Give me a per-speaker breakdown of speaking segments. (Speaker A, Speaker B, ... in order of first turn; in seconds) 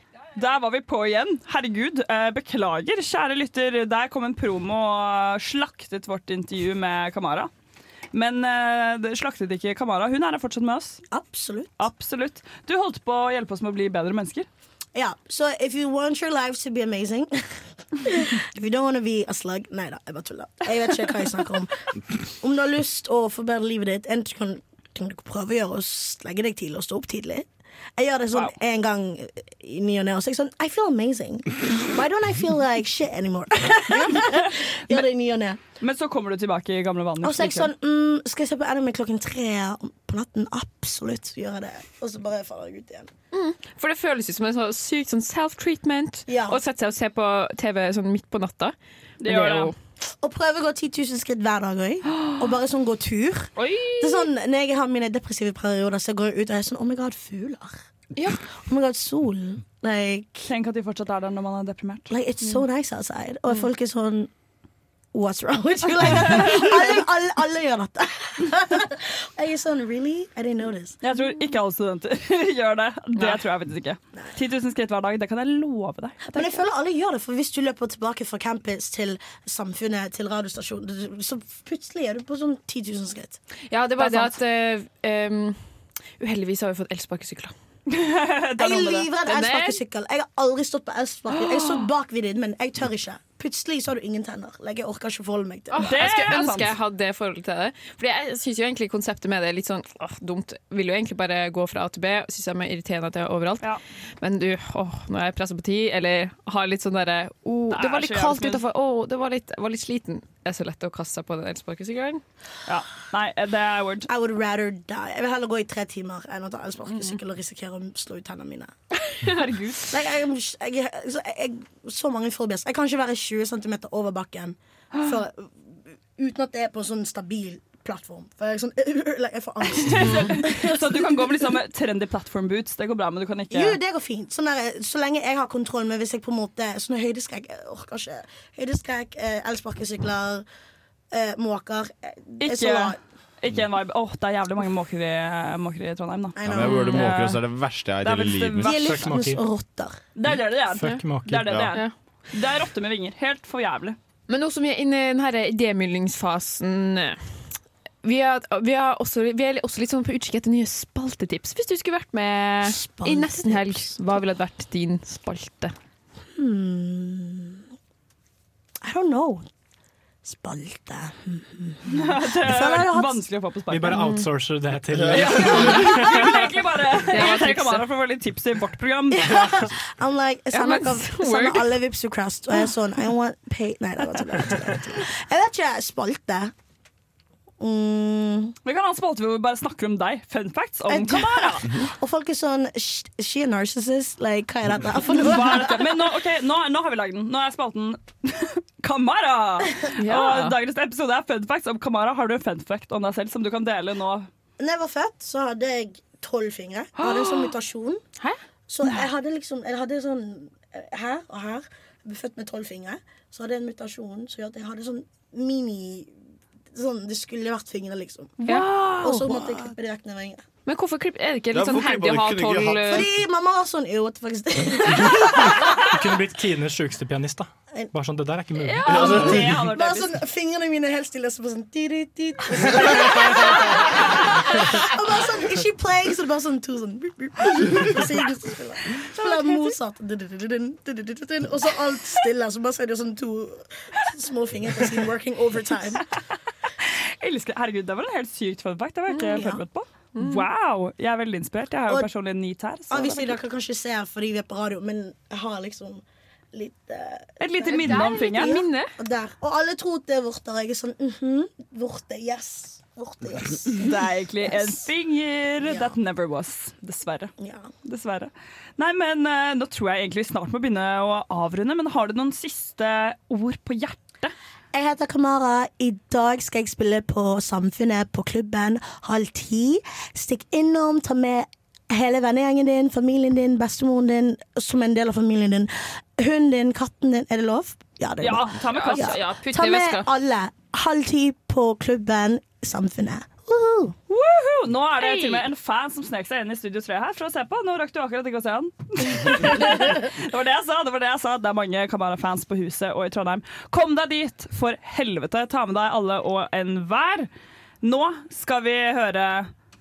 Speaker A: 0.4-7.5, 8.1-11.0, 11.8-14.5, 35.8-37.7, 49.2-49.7, 60.5-62.1, 66.3-66.7, 71.0-76.2, 87.9-89.1, 95.8-96.7, 107.7-108.6, 112.7-114.1, 119.3-119.9, 129.8-133.8, 142.4-147.4, 148.0-149.1, 150.2-154.0, 171.9-174.0, 175.3-179.3, 188.7-191.7, 195.2-204.3, 218.4-218.7, 228.7-230.1, 246.8-253.4, 257.4-258.6, 263.8-267.3, 267.9-274.3, 288.2-289.2, 294.1-307.3, 307.8-309.5
Speaker B: 11.1-11.9, 14.9-17.4, 18.0-21.8, 22.4-35.6, 37.2-43.1, 46.3-46.6, 50.2-57.8, 58.5-60.5, 62.1-64.3, 65.1-71.0, 76.3-83.4, 88.6-96.0, 114.1-118.7, 119.9-125.5, 126.2-131.5, 133.5-140.5, 141.1-143.0, 146.4-147.0, 148.6-150.0, 162.6-164.0, 166.3-167.7, 168.8-169.5, 170.2-173.2, 179.1-186.5, 187.6-188.6, 190.9-196.0, 204.6-208.0, 208.7-216.1, 216.7-218.4, 219.0-220.4, 222.9-225.8, 229.5-246.1, 249.3-249.6, 252.9-264.9, 265.6-266.0, 267.4-267.7, 274.7-293.9
Speaker C: 43.3-49.7, 76.3-76.6, 83.7-85.6, 86.2-87.5, 89.2-89.8, 95.7-103.7, 104.2-112.2, 146.7-147.0, 154.3-157.2, 158.0-165.7, 173.9-174.3, 177.1-177.9, 180.5-181.8, 200.0-200.6, 207.0-207.4, 218.4-219.6, 220.7-223.1, 249.1-249.4, 250.2-250.4, 257.8-258.9, 288.7-290.1, 295.0-295.5
Speaker D: 146.4-148.9, 174.9-175.9, 221.5-223.1, 228.9-229.6
Speaker E: 148.7-149.4, 150.7-151.7, 173.7-176.4, 225.8-229.5